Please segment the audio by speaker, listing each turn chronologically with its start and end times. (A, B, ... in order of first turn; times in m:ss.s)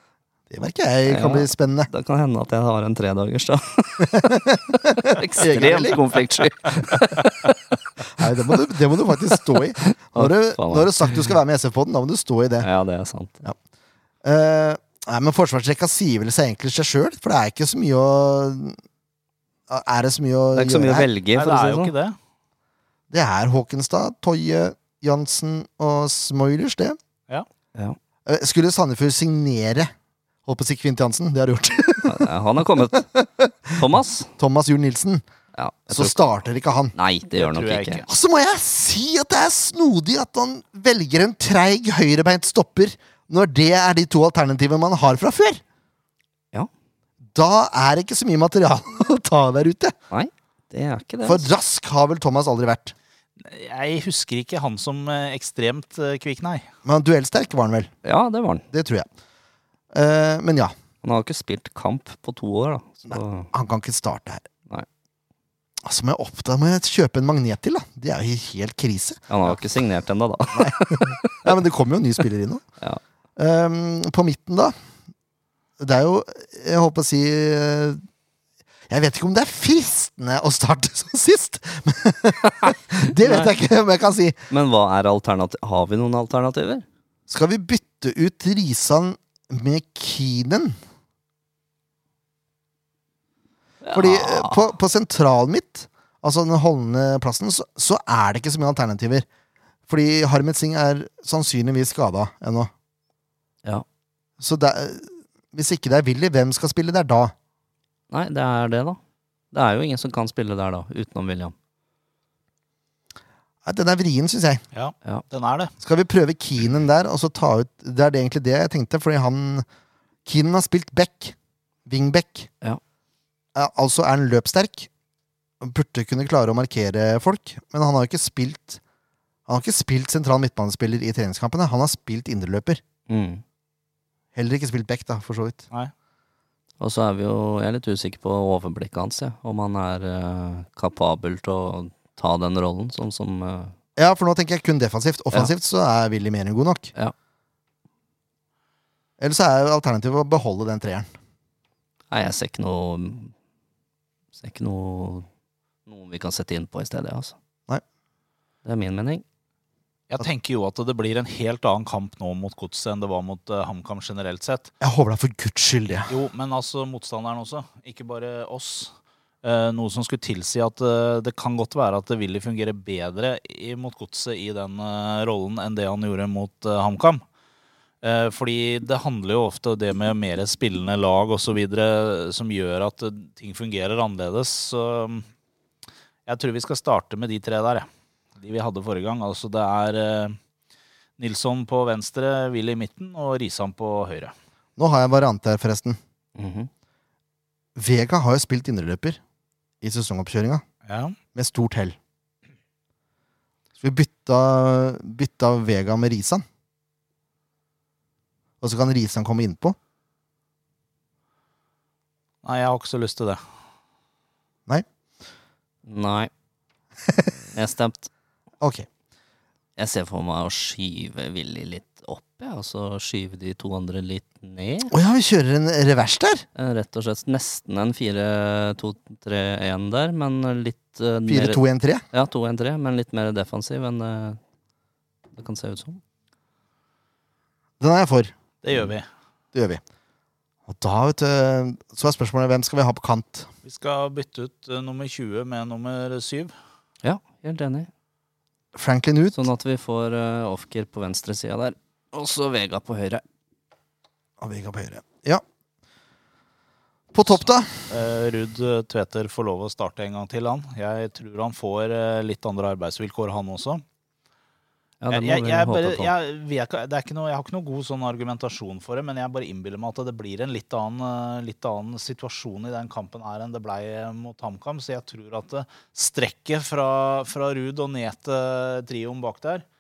0:00.5-0:01.9 A
0:01.1-0:04.3 B
0:04.0-0:06.2 A
0:04.9-0:08.6 B
0:08.1-0:12.7 A
0:09.3-0:11.3 B
0:12.6-0:13.4 B
0:14.2-0:18.8 A
0:19.7-0:21.1 A
0:20.5-0:21.9 B
0:21.3-0:22.2 C
0:23.1-0:27.0 A
0:28.2-0:29.9 A
0:30.4-0:35.2 A
0:32.0-0:33.1 B
0:33.8-0:34.3 B
0:35.6-0:36.2 B
0:35.9-0:36.9 A
0:36.9-0:38.0 B
0:37.3-0:38.1 C
0:38.1-0:45.6 A
0:47.3-0:49.9 A
0:50.1-0:51.4 B
0:51.2-0:52.9 A
0:53.4-0:56.7 C
0:56.8-0:57.9 A
0:58.0-0:58.6 B
0:58.7-0:59.1 A
0:59.9-1:00.7 A
1:01.0-1:03.5 B
1:03.1-1:04.5 A
1:05.8-1:09.6 A
1:09.3-1:11.6 B
1:10.5-1:12.6 A
1:13.4-1:14.7 A
1:15.8-1:18.0 A
1:18.9-1:24.4 A
1:22.6-1:23.5 B
1:24.5-1:26.8 B
1:27.3-1:30.8 A
1:33.8-1:34.7 B
1:33.9-1:39.2 A
1:39.9-1:42.7 A
1:44.4-1:47.3 A
1:48.1-1:49.0 B
1:49.5-1:51.5 B
1:53.6-1:54.6 A
1:54.7-1:55.7 C
1:55.8-1:59.6 A
2:00.2-2:01.3 A
2:01.8-2:02.5 A
2:03.5-2:04.9 A
2:05.6-2:08.8 A
2:09.5-2:12.8 A
2:13.1-2:13.4 B
2:14.3-2:15.6 A
2:16.8-2:23.7 B
2:24.0-2:26.9 A
2:29.2-2:31.1 A
2:32.1-2:33.3 B
2:34.3-2:35.3 B
2:35.9-2:37.4 B
2:38.6-2:39.2 B
2:40.1-2:44.7 C
2:44.8-2:46.1 A
2:46.1-2:48.9 C
2:49.4-2:57.2 C
2:58.0-3:05.3 C
3:06.2-3:10.4 C
3:11.2-3:14.3 C
3:14.8-3:16.0 A
3:16.4-3:16.7 B
3:17.7-3:19.2 A
3:19.8-3:20.6 A
3:20.9-3:21.2 C
3:21.3-3:22.0 A
3:23.8-3:26.4 A
3:28.6-3:29.8 A
3:32.4-3:33.4 C
3:35.8-3:36.3 B
3:37.5-3:38.1 B
3:38.6-3:38.9 A
3:39.8-3:44.9 B
3:44.9-3:46.4 A
3:46.5-3:54.4 B
3:51.3-3:52.0 A
3:55.3-3:56.0 B
3:57.8-3:58.3 A
3:58.6-3:59.1 C
3:59.5-3:59.8 A
4:00.7-4:03.5 A
4:03.6-4:06.5 C
4:07.0-4:07.9 B
4:08.7-4:09.4 A
4:09.3-4:13.2 B
4:14.4-4:15.4 A
4:17.1-4:17.9 A
4:17.9-4:23.8 C
4:25.0-4:26.1 B
4:25.1-4:39.6 C